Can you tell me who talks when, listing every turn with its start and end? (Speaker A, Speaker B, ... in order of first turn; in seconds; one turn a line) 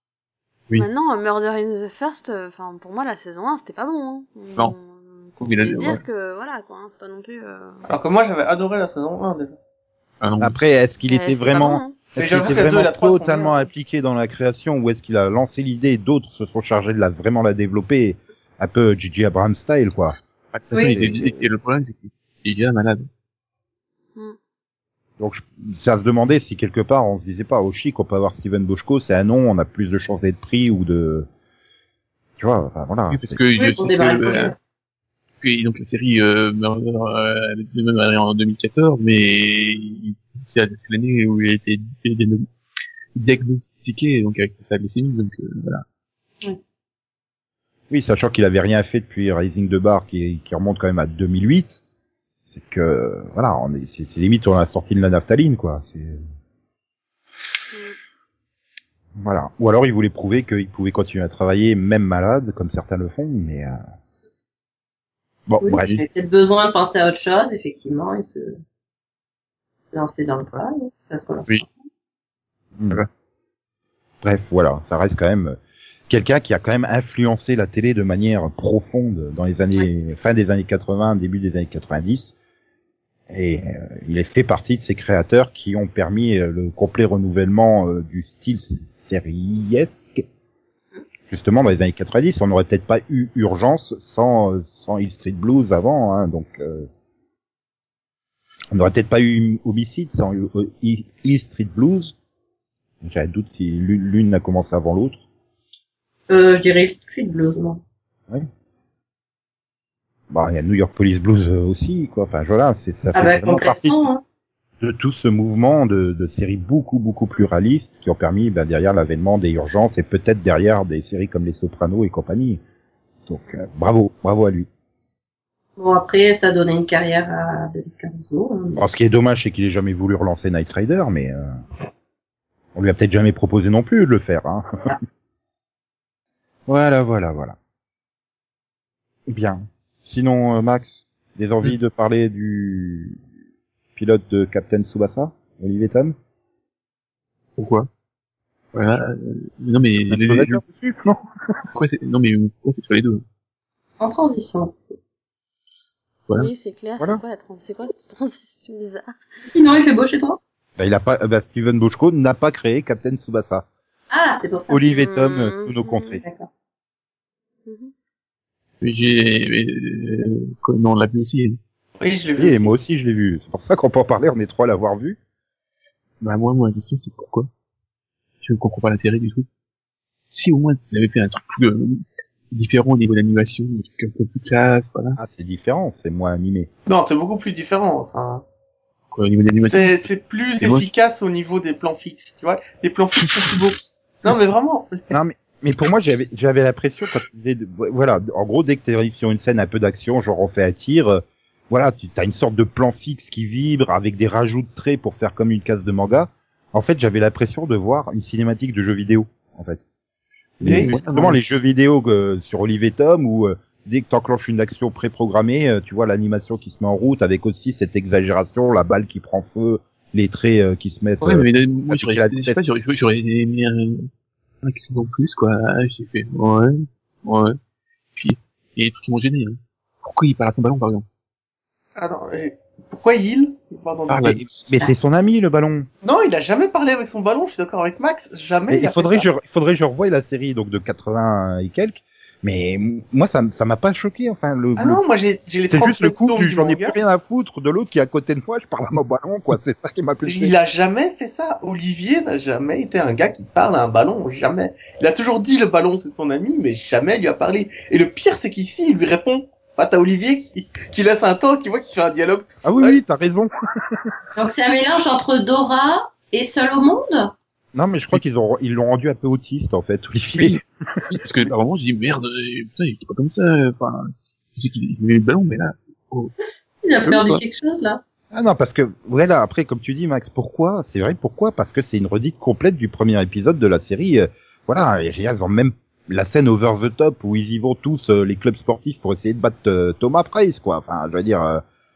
Speaker A: 0.8-7.8
Speaker B: 5.4-6.0
Speaker C: 7.9-9.6
Speaker B: 10.2-10.6
Speaker D: 10.4-20.2
Speaker A: 11.1-12.0
Speaker C: 12.2-13.7
Speaker B: 20.5-23.1
Speaker E: 20.7-21.0
Speaker D: 20.9-21.3
Speaker D: 25.2-31.3
Speaker D: 32.4-33.4
Speaker B: 33.1-34.5
Speaker E: 33.6-34.6
Speaker B: 35.4-42.5
Speaker B: 43.1-45.8
Speaker D: 47.9-51.8
Speaker D: 52.5-56.2
Speaker D: 59.2-63.8
Speaker D: 65.5-65.9
Speaker E: 65.6-68.6
Speaker E: 69.9-71.7
Speaker D: 72.8-73.0
Speaker D: 74.2-75.6
Speaker D: 76.1-82.3
Speaker D: 83.3-90.2
Speaker D: 91.3-96.9
Speaker D: 98.7-102.2
Speaker D: 103.0-105.2
Speaker E: 106.3-107.8
Speaker D: 110.3-113.9
Speaker E: 113.1-114.2
Speaker D: 114.8-122.6
Speaker D: 123.3-124.7
Speaker E: 125.8-128.8
Speaker D: 128.8-131.6
Speaker D: 132.8-135.0
Speaker D: 136.7-137.6
Speaker D: 139.3-143.2
Speaker D: 144.0-146.2
Speaker B: 147.6-147.9
Speaker B: 148.7-150.6
Speaker D: 150.1-151.2
Speaker B: 151.8-153.2
Speaker E: 154.0-154.8
Speaker A: 156.3-159.2
Speaker E: 159.5-160.4
Speaker D: 160.8-163.7
Speaker E: 164.1-164.8
Speaker D: 164.7-166.2
Speaker A: 164.9-166.2
Speaker E: 166.2-166.5
Speaker A: 167.7-167.9
Speaker B: 168.8-171.6
Speaker C: 172.0-172.7
Speaker D: 172.4-175.2
Speaker B: 176.2-177.5
Speaker B: 178.4-179.5
Speaker B: 180.3-185.2
Speaker D: 185.2-186.7
Speaker C: 186.9-188.4
Speaker B: 189.1-190.1
Speaker C: 189.7-195.1
Speaker B: 190.6-190.9
Speaker D: 195.1-209.8
Speaker B: 210.6-211.4
Speaker C: 210.6-210.9
Speaker D: 210.7-222.6
Speaker B: 221.2-224.1
Speaker B: 224.6-227.6
Speaker B: 228.2-231.1
Speaker C: 232.0-234.4
Speaker B: 234.1-234.4
Speaker D: 234.4-235.9
Speaker C: 236.0-239.3
Speaker D: 238.7-245.0
Speaker C: 244.8-247.0
Speaker D: 245.7-250.6
Speaker C: 250.2-263.0
Speaker D: 262.6-264.1
Speaker E: 264.4-267.3
Speaker D: 267.8-271.1
Speaker B: 270.4-276.3
Speaker E: 276.8-278.0
Speaker B: 277.1-277.4
Speaker D: 278.3-291.6